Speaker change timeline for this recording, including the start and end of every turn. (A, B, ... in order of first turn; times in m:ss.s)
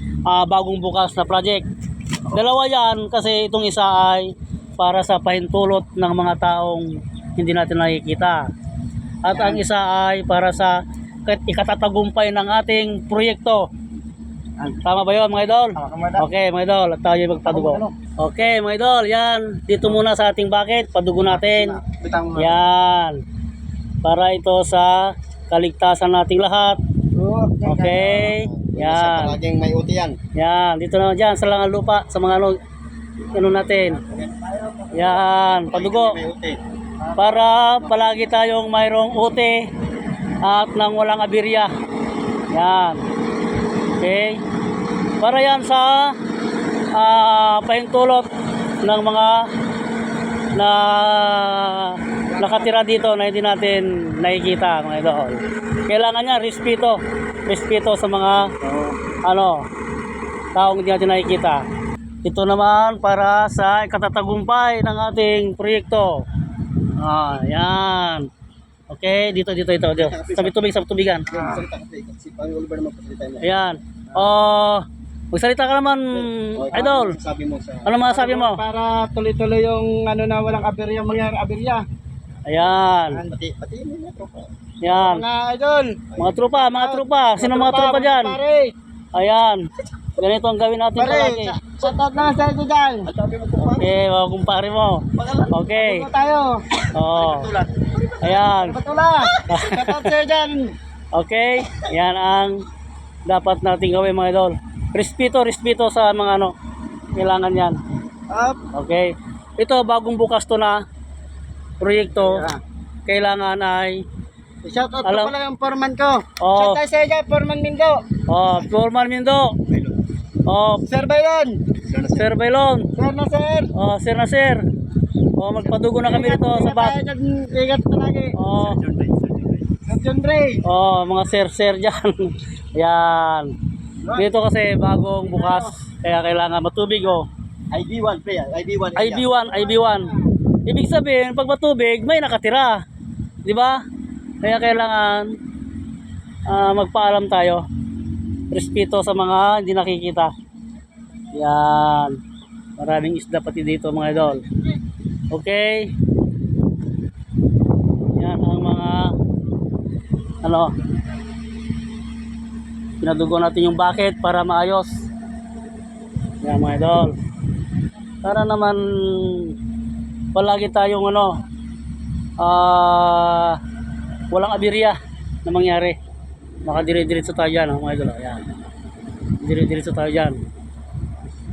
0:00.3-0:01.6 A
0:02.3-0:08.4 A
0:09.2-0:13.7 A
0:09.3-0:09.6 B
0:14.8-0:21.8 A
0:15.8-0:16.2 B
0:17.5-0:17.9 B
0:21.3-0:22.6 B
0:22.4-0:23.2 A
0:24.0-0:26.8 A
0:27.2-0:28.4 B
0:27.6-0:29.4 A
0:28.3-0:30.2 C
0:30.4-0:32.6 A
0:33.3-0:34.0 A
0:34.0-0:36.6 C
0:34.9-0:36.2 A
0:37.2-0:39.7 A
0:40.4-0:41.7 A
0:42.5-0:43.0 A
0:44.0-0:44.4 A
0:45.2-0:46.2 A
0:46.9-0:48.3 A
0:48.8-0:49.5 A
0:50.6-0:58.6 A
0:59.2-0:59.6 A
1:00.5-1:01.6 A
1:02.2-1:06.2 A
1:07.0-1:08.3 A
1:08.9-1:11.4 A
1:10.0-1:10.5 C
1:11.3-1:13.5 C
1:11.3-1:11.6 B
1:13.4-1:17.2 A
1:16.1-1:18.0 C
1:17.8-1:18.6 A
1:18.1-1:21.8 B
1:22.5-1:23.2 A
1:23.2-1:24.5 C
1:24.8-1:25.2 A
1:24.9-1:26.0 B
1:26.1-1:26.5 C
1:26.2-1:28.4 A
1:26.6-1:28.7 B
1:29.1-1:29.6 A
1:30.2-1:31.6 A
1:31.0-1:33.1 B
1:33.0-1:33.9 C
1:33.6-1:36.1 A
1:35.2-1:35.7 C
1:35.7-1:36.6 B
1:36.9-1:37.5 A
1:37.1-1:38.5 C
1:38.2-1:38.8 A
1:38.5-1:40.7 B
1:39.5-1:40.1 A
1:41.1-1:42.6 A
1:43.3-1:46.5 A
1:47.2-1:47.8 A
1:48.3-1:48.6 B
1:48.7-1:50.8 A
1:51.8-1:52.5 A
1:52.2-1:52.6 B
1:53.1-1:54.0 A
1:54.6-1:58.0 B
1:55.0-1:55.3 A
1:56.4-1:56.8 A
1:58.3-1:59.6 A
1:59.7-2:00.0 C
2:00.5-2:00.9 A
2:00.9-2:01.6 B
2:01.8-2:02.3 C
2:02.2-2:02.9 A
2:03.0-2:03.7 B
2:03.7-2:04.6 A
2:05.4-2:07.0 A
2:05.5-2:05.9 C
2:06.0-2:08.4 B
2:08.4-2:08.8 A
2:08.6-2:09.8 C
2:09.9-2:10.6 B
2:10.6-2:13.5 A
2:14.2-2:17.3 A
2:15.2-2:15.7 B
2:17.7-2:19.3 C
2:19.0-2:20.1 A
2:19.4-2:20.2 B
2:20.7-2:22.8 A
2:23.4-2:23.8 A
2:24.4-2:25.3 A
2:26.5-2:27.6 A
2:28.5-2:30.3 A
2:31.3-2:32.2 A
2:32.8-2:34.4 A
2:35.3-2:35.9 A
2:38.1-2:39.2 A
2:40.4-2:40.7 A
2:43.0-2:45.1 A
2:46.4-2:47.2 A
2:48.2-2:49.5 A
2:50.3-2:51.3 A
2:52.4-2:53.6 A
2:54.3-2:56.0 A
2:56.6-2:58.4 A
2:59.4-3:00.4 A